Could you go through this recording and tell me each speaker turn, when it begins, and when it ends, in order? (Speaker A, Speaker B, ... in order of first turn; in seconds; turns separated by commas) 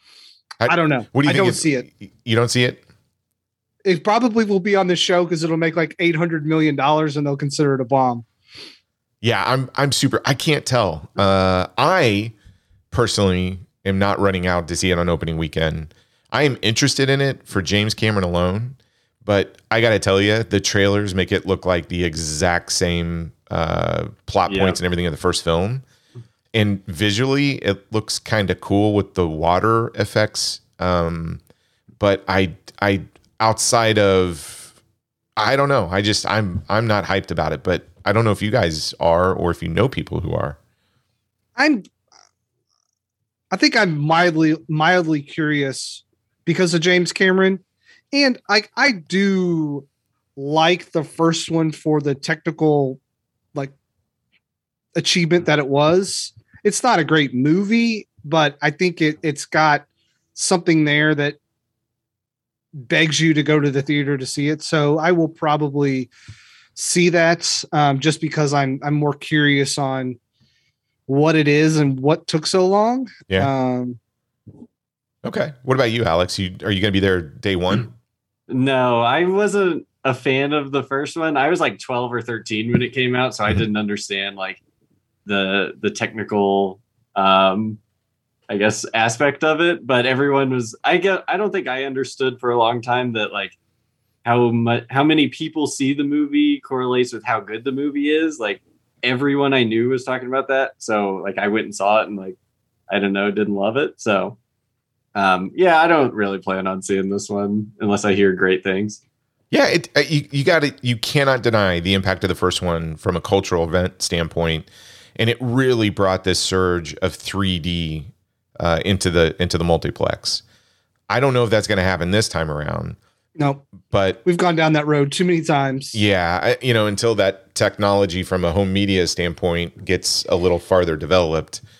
Speaker A: 0.6-2.8, Speaker B: 0.7-1.9, Speaker B: 3.8-8.2, Speaker A: 9.2-12.3, Speaker A: 12.9-25.8, Speaker C: 24.5-24.8, Speaker A: 26.5-31.4, Speaker A: 32.0-34.7, Speaker A: 35.4-40.6, Speaker B: 41.6-41.8, Speaker B: 43.5-47.6, Speaker B: 48.1-53.0, Speaker B: 55.0-61.4, Speaker B: 62.8-66.1, Speaker B: 66.8-70.2, Speaker B: 71.1-74.0, Speaker A: 75.2-77.9, Speaker C: 78.5-84.6, Speaker C: 85.2-87.8, Speaker C: 88.5-93.5, Speaker C: 94.2-102.3, Speaker C: 102.9-104.3, Speaker C: 105.1-109.0, Speaker A: 109.5-120.4, Speaker A: 121.1-123.0, Speaker B: 123.4-123.6, Speaker A: 123.9-124.2, Speaker B: 124.2-126.0, Speaker A: 125.9-131.6